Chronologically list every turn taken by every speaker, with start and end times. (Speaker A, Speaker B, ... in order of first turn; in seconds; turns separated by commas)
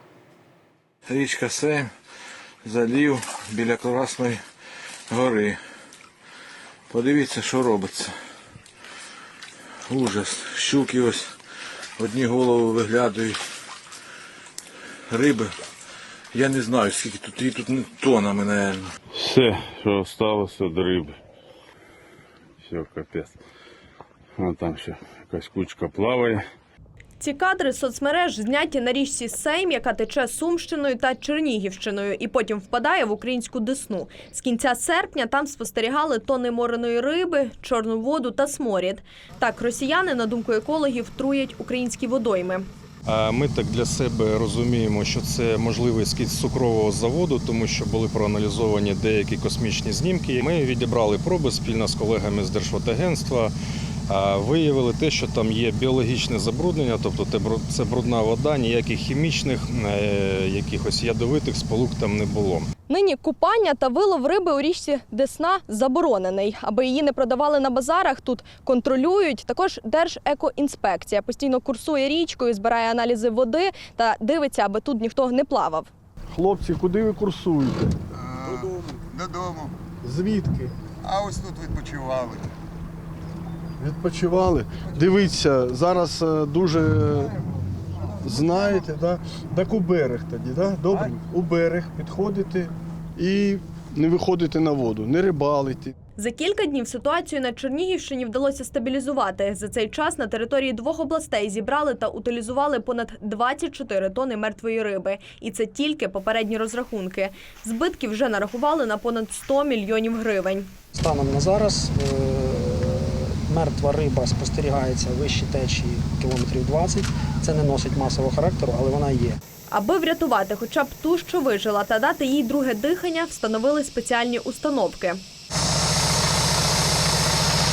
Speaker A: 1.1-1.9, Speaker A: 2.6-4.4, Speaker A: 5.1-5.6, Speaker A: 6.9-8.1, Speaker A: 9.9-11.3, Speaker A: 12.0-13.4, Speaker A: 15.1-15.5, Speaker A: 16.3-18.8, Speaker B: 19.1-21.2, Speaker B: 22.6-23.4, Speaker B: 24.4-26.4, Speaker C: 27.2-42.6, Speaker D: 43.0-53.5, Speaker D: 54.1-62.7, Speaker C: 62.9-75.9, Speaker E: 76.3-78.0, Speaker F: 79.1-79.7, Speaker E: 80.0-80.7, Speaker F: 81.1-82.4, Speaker E: 83.8-87.4, Speaker E: 88.2-95.9, Speaker C: 96.2-110.7, Speaker G: 110.9-119.4, Speaker C: 119.7-125.2